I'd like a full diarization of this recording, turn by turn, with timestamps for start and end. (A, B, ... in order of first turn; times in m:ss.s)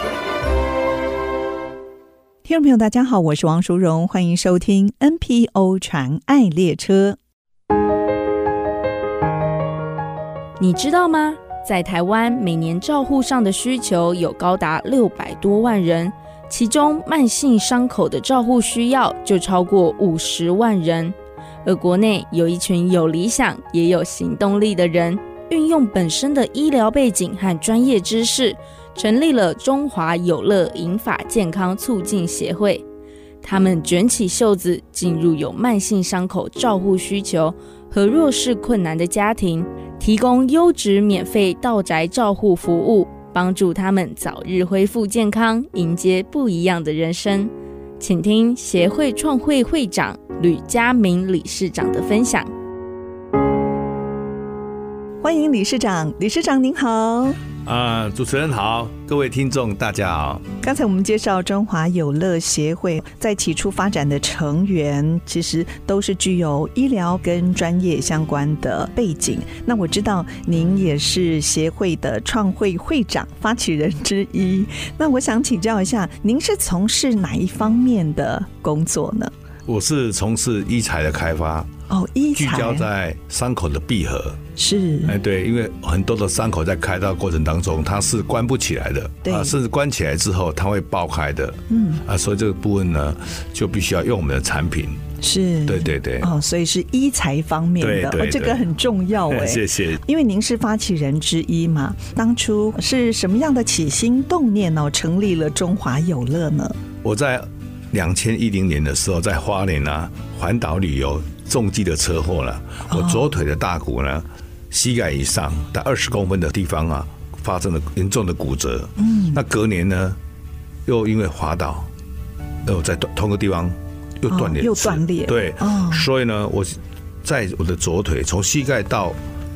0:02.4-0:07.2 A
0:10.6-0:21.1 B
0:21.6-0:32.8 B
0:33.4-0:52.5 B
0:55.2-0:57.4 A
0:57.6-1:00.4 C
1:00.6-1:19.3 A
1:19.7-1:21.7 C
1:21.9-1:22.9 A
1:22.3-1:24.4 C
1:24.6-1:25.2 A
1:25.0-1:35.0 C
1:29.2-1:29.6 A
1:31.7-1:32.0 A
1:35.2-1:46.8 A
1:35.6-1:36.3 C
1:37.8-1:38.7 C
1:39.3-1:40.0 C
1:47.0-2:00.2 C
1:52.9-1:53.2 A
1:59.0-1:59.4 A
2:00.9-2:01.9 C
2:02.6-2:09.2 C
2:04.3-2:06.1 A